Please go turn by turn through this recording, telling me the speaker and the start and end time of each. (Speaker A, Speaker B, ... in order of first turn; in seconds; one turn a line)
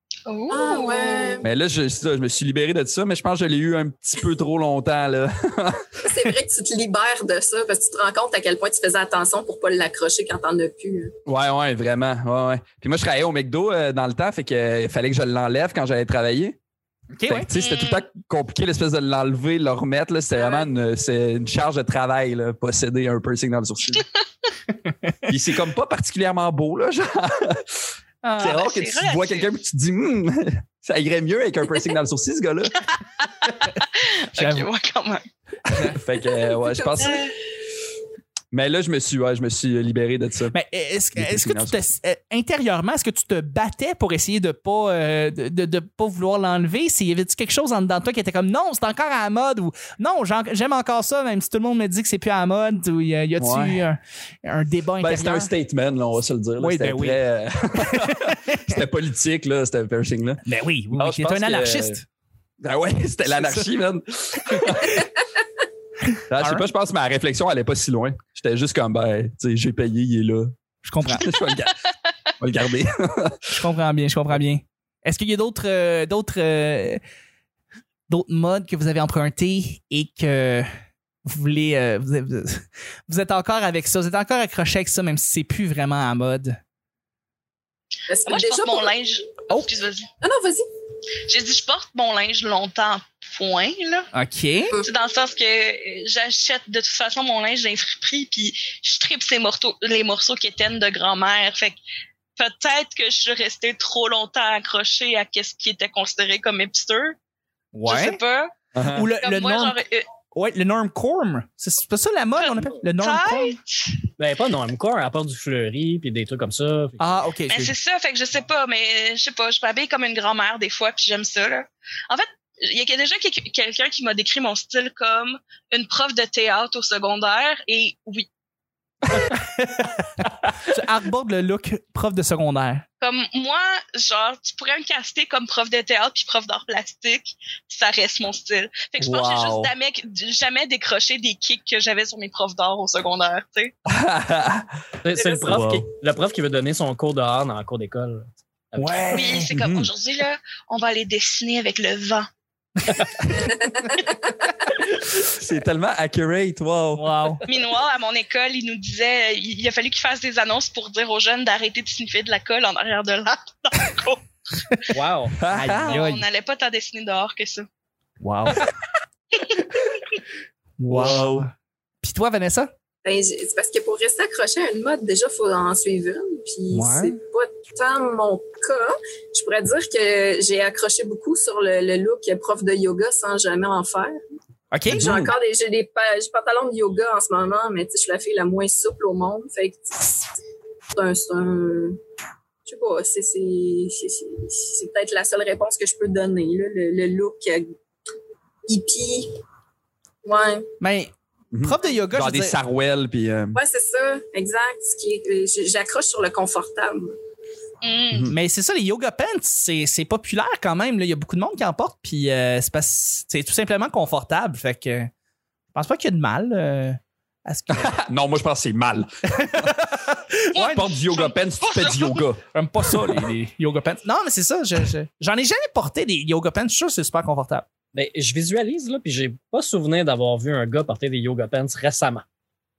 Speaker A: 0.3-1.4
Speaker B: 0.5-1.5
Speaker C: 1.4-6.3
Speaker B: 6.0-11.1
Speaker C: 11.3-16.6
Speaker D: 17.1-17.5
Speaker C: 17.3-24.1
Speaker A: 17.5-18.1
Speaker A: 20.4-20.7
Speaker D: 24.9-25.2
Speaker C: 25.3-32.8
Speaker D: 28.2-28.5
Speaker A: 28.4-29.5
Speaker A: 33.4-35.3
Speaker D: 34.4-34.7
Speaker D: 35.7-36.0
Speaker C: 35.7-37.2
Speaker B: 36.5-37.1
Speaker A: 37.0-37.4
Speaker C: 38.5-40.5
Speaker D: 40.5-55.5
Speaker C: 41.2-41.8
Speaker C: 53.4-53.8
Speaker C: 55.0-60.4
Speaker D: 56.6-57.2
Speaker D: 57.7-58.8
Speaker D: 60.5-62.0
Speaker C: 60.9-62.0
Speaker C: 62.6-65.1
Speaker D: 63.4-63.7
Speaker D: 66.1-66.7
Speaker C: 66.3-70.5
Speaker D: 70.8-71.3
Speaker C: 71.1-71.8
Speaker C: 72.4-73.5
Speaker D: 73.5-77.0
Speaker D: 78.1-80.7
Speaker D: 81.3-86.6
Speaker B: 88.1-88.9
Speaker A: 88.2-90.1
Speaker B: 90.2-90.7
Speaker A: 91.3-94.1
Speaker D: 94.1-94.8
Speaker A: 94.8-101.8
Speaker A: 102.4-107.2
Speaker D: 107.7-108.2
Speaker A: 107.9-108.5
Speaker C: 108.8-109.1
Speaker D: 108.9-109.8
Speaker A: 109.2-110.1
Speaker D: 110.3-113.6
Speaker A: 112.4-114.1
Speaker E: 114.2-117.0
Speaker D: 117.0-117.7
Speaker A: 117.5-128.3
Speaker D: 129.2-132.8
Speaker A: 133.0-143.7
Speaker C: 139.0-139.7
Speaker C: 143.9-144.7
Speaker E: 145.0-149.1
Speaker A: 145.2-145.6
Speaker C: 145.5-145.9
Speaker D: 148.8-149.5
Speaker A: 149.1-152.3
Speaker C: 149.5-149.9
Speaker B: 153.5-154.0
Speaker C: 154.8-157.2
Speaker D: 157.0-157.4
Speaker A: 157.5-164.9
Speaker E: 164.9-165.4
Speaker C: 165.4-166.1
Speaker D: 165.5-166.2
Speaker A: 165.7-167.7
Speaker D: 168.2-168.7
Speaker A: 169.3-169.7
Speaker D: 170.8-171.5
Speaker C: 170.9-171.4
Speaker D: 172.0-172.7
Speaker B: 173.1-184.2
Speaker D: 176.7-177.2
Speaker D: 184.7-185.2
Speaker B: 184.9-190.1
Speaker C: 184.9-185.3
Speaker B: 190.9-192.0
Speaker B: 192.7-197.7
Speaker B: 198.7-199.3
Speaker B: 200.2-200.7
Speaker D: 200.8-202.6
Speaker C: 201.5-203.6
Speaker B: 203.5-207.1
Speaker A: 207.8-208.3
Speaker D: 208.3-215.1
Speaker D: 215.7-218.0
Speaker C: 217.7-219.7
Speaker D: 219.3-220.9
Speaker C: 220.6-223.3
Speaker A: 220.6-222.2
Speaker D: 222.5-227.7
Speaker E: 227.9-232.2